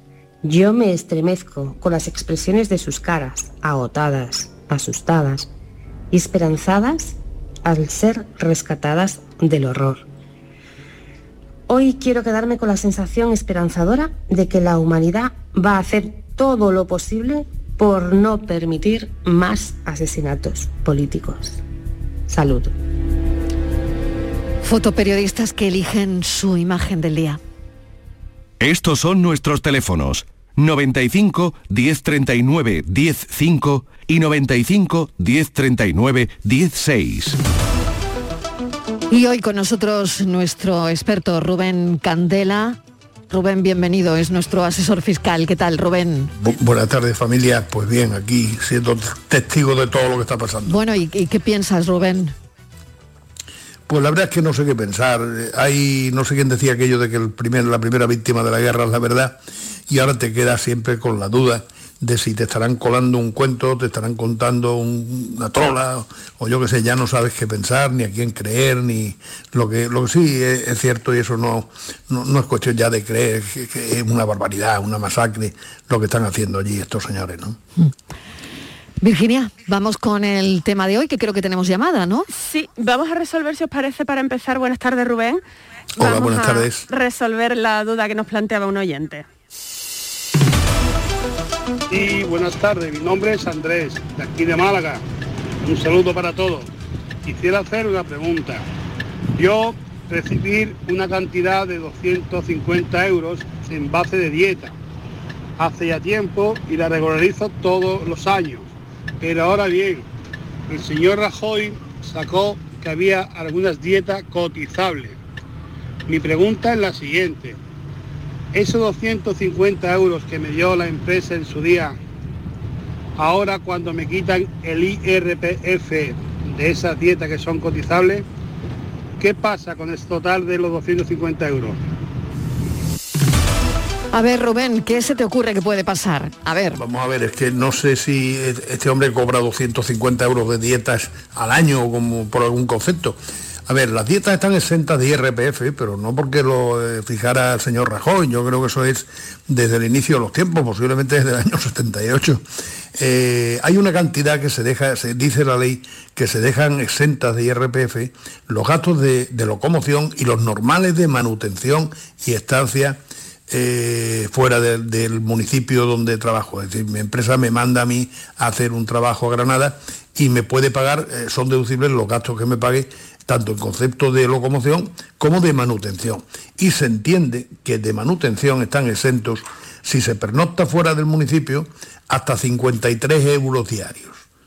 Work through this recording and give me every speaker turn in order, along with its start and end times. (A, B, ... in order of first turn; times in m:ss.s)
0:00.4-0:05.5 A
0:06.1-0:10.1 A
0:11.7-0:21.6 A
0:22.3-0:22.7 A
0:24.6-0:27.4 B
0:28.6-0:37.4 C
0:39.1-0:42.8 B
0:43.3-0:46.3 B
0:46.4-0:50.8 D
0:50.7-0:52.3 B
0:53.9-0:59.4 D
0:59.9-1:17.6 D
1:19.0-1:22.3 B
1:22.4-1:25.4 E
1:26.0-1:29.3 E
1:26.0-1:26.8 D
1:31.9-1:35.0 F
1:35.7-1:36.7 F
1:37.3-1:38.6 F
1:39.4-1:44.7 F
1:45.6-1:48.7 F
1:49.2-1:50.0 F
1:50.7-1:55.2 F
1:56.1-1:57.6 F
1:58.5-2:02.0 F
2:03.2-2:08.2 F
2:09.2-2:11.8 F
2:14.1-2:16.8 B
2:16.8-2:23.2 D
2:23.7-2:32.4 D
2:33.0-2:43.0 D
2:43.5-3:04.2 D